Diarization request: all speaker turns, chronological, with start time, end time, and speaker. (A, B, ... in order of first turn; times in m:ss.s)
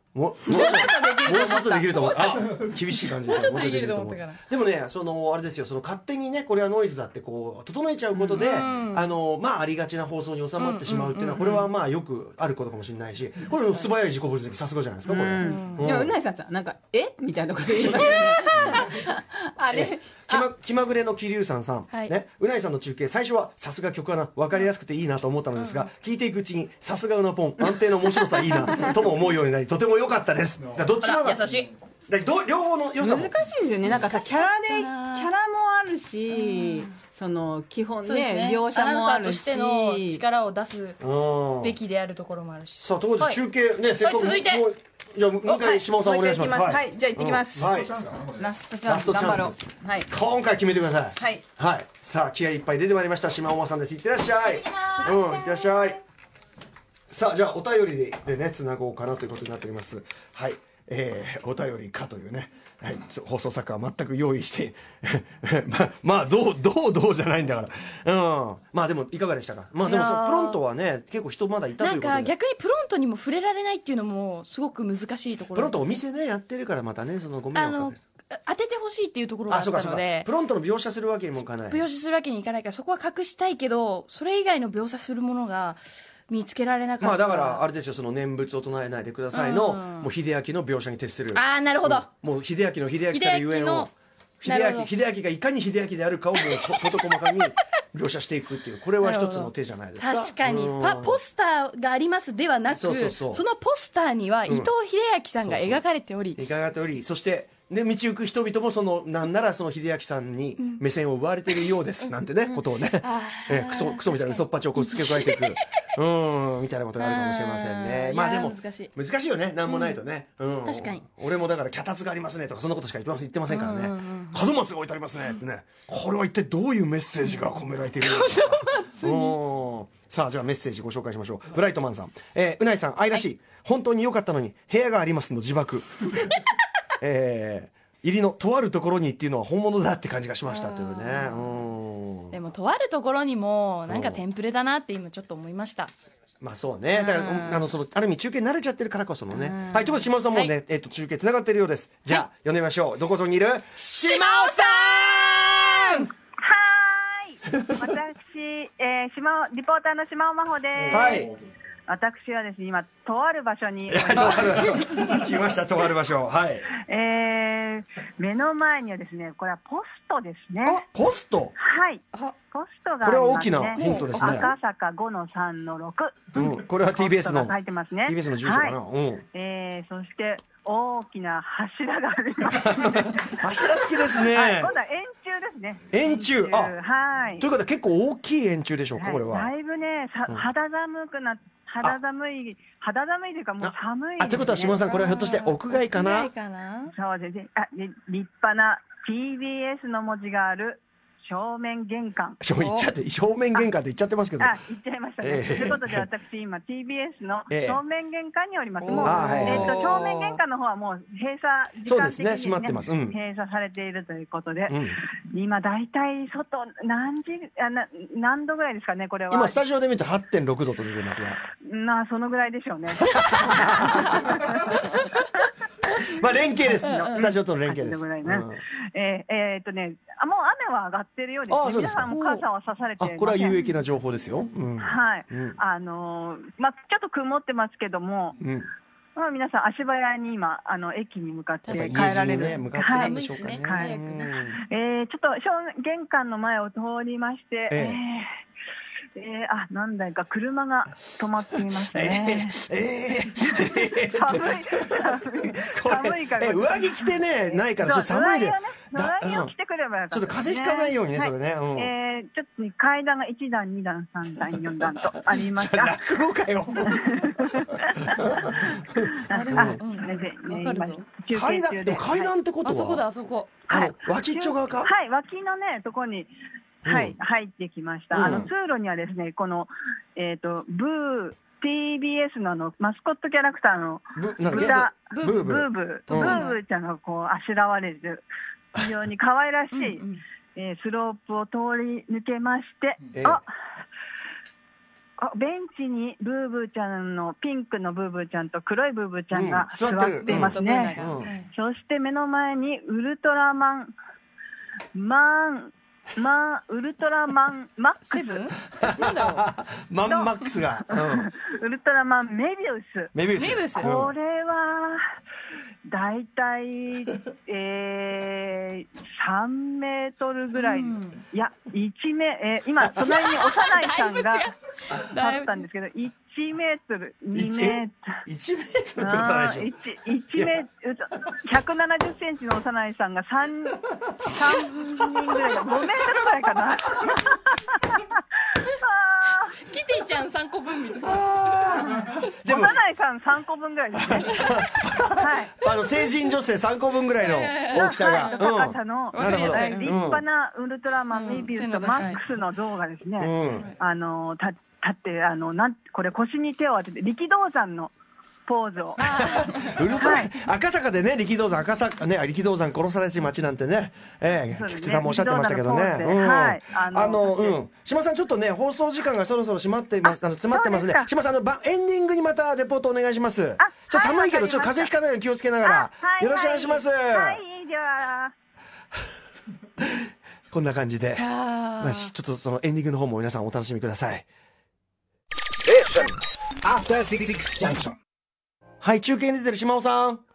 0:00.1-0:16.1 A
0:00.4-0:02.2 B
0:00.6-0:01.4 C
0:01.9-0:04.4 C
0:08.1-0:08.6 B
0:08.3-0:09.1 C
0:10.6-0:11.7 C
0:15.0-0:20.5 B
0:15.4-0:15.9 C
0:18.0-0:18.6 C
0:18.5-0:19.0 A
0:19.7-0:33.3 A
0:25.6-0:25.9 C
0:28.6-0:28.9 B
0:31.0-0:31.7 C
0:33.0-0:40.2 B
0:33.9-0:35.3 C
0:36.3-0:36.9 C
0:38.0-0:41.0 C
0:41.0-0:41.8 A
0:41.6-0:43.4 C
0:42.8-0:56.0 A
0:44.0-0:44.7 C
0:45.4-0:50.1 B
0:54.4-0:55.7 B
0:57.1-1:12.3 A
1:09.8-1:10.6 C
1:11.8-1:16.0 C
1:15.5-1:18.0 A
1:17.6-1:20.3 C
1:19.5-1:21.8 A
1:21.7-1:27.6 C
1:27.0-1:41.2 A
1:29.3-1:30.1 C
1:31.3-1:32.1 C
1:33.1-1:33.9 C
1:34.4-1:34.9 C
1:36.4-1:37.4 C
1:39.0-1:46.4 C
1:42.7-1:43.4 A
1:45.4-1:45.8 A
1:46.4-2:16.3 A
1:52.0-1:55.7 C
1:57.0-1:58.9 C
1:59.7-2:00.0 C
2:00.6-2:01.0 C
2:03.5-2:04.4 C
2:08.0-2:09.4 C
2:17.0-2:22.4 A
2:20.5-2:21.6 C
2:22.3-2:25.9 C
2:23.9-2:24.2 A
2:26.4-2:36.0 A
2:26.9-2:27.7 C
2:29.3-2:30.5 C
2:33.9-2:36.1 C
2:36.4-2:41.3 D
2:40.8-2:41.3 A
2:41.9-2:44.7 D
2:43.9-2:46.7 A
2:46.9-2:50.8 D
2:50.9-2:51.6 A
2:51.6-2:58.8 D
2:53.0-2:54.5 A
2:53.8-2:54.5 C
2:56.3-2:59.2 A
2:59.3-3:03.4 D
3:02.6-3:04.7 A
3:04.0-3:07.4 D
3:05.9-3:06.7 A
3:07.4-3:09.5 A
3:09.0-3:14.9 D
3:13.6-3:16.3 A
3:14.9-3:16.9 C
3:16.9-3:22.4 D
3:22.4-3:24.6 A
3:22.6-3:22.9 C
3:24.4-3:39.6 D
3:25.2-3:26.1 A
3:27.5-3:27.8 A
3:28.8-3:30.4 C
3:29.0-3:29.8 A
3:31.9-3:33.2 A
3:34.7-3:35.0 A
3:39.3-3:41.4 A
3:41.6-3:44.8 D
3:43.0-3:44.8 A
3:45.9-3:48.6 A
3:46.6-3:53.7 D
3:51.5-3:52.2 A
3:52.1-3:52.4 C
3:53.0-3:55.6 A
3:54.8-3:58.4 D
3:58.4-3:58.7 A
3:59.2-4:03.1 D
4:01.7-4:04.6 A
4:02.7-4:04.6 C
4:03.6-4:03.9 D
4:04.7-4:08.4 D
4:07.7-4:08.0 A
4:09.2-4:12.6 D
4:11.7-4:19.5 A
4:13.4-4:26.0 D
4:20.1-4:21.9 A
4:24.5-4:29.8 A
4:26.9-4:28.5 D
4:29.3-4:32.3 D
4:29.3-4:31.0 C
4:31.3-4:33.0 A
4:32.6-4:33.6 C
4:33.7-4:34.9 A
4:33.7-4:36.3 D
4:36.8-4:37.2 A
4:36.9-4:48.2 D
4:38.1-4:38.5 A
4:44.2-4:46.4 A
4:44.5-4:45.4 C
4:46.2-4:46.6 C
4:48.7-4:50.0 D
4:49.7-4:50.2 C
4:50.6-4:53.5 D
4:53.1-4:53.4 A
4:55.2-5:03.9 D
4:59.3-5:01.3 A
5:00.2-5:01.5 C
5:04.9-5:08.5 D
5:08.1-5:09.4 C
5:08.8-5:11.3 A
5:10.9-5:13.1 D
5:13.1-5:14.1 A
5:13.4-5:13.9 C
5:13.8-5:15.0 D
5:15.9-5:24.5 D
5:20.6-5:21.2 C
5:23.0-5:25.7 C
5:25.1-5:28.2 D
5:27.3-5:29.7 A
5:29.0-5:39.6 D
5:39.6-5:41.8 C
5:41.0-5:42.8 A
5:41.7-5:44.5 D
5:44.0-5:50.2 A
5:45.2-5:45.5 D
5:47.2-5:48.5 C
5:47.7-5:57.9 D
5:49.1-5:50.0 C
5:51.1-5:52.2 C
5:53.2-5:53.7 A
5:58.5-5:59.2 D
5:59.0-6:00.0 C
5:59.1-6:17.4 A
6:00.0-6:00.3 D
6:04.6-6:07.6 D
6:10.1-6:11.1 D
6:13.6-6:14.9 D
6:15.6-6:18.3 D
6:19.8-6:24.3 A
6:21.2-6:22.1 C
6:25.6-6:28.0 E
6:28.8-6:30.2 A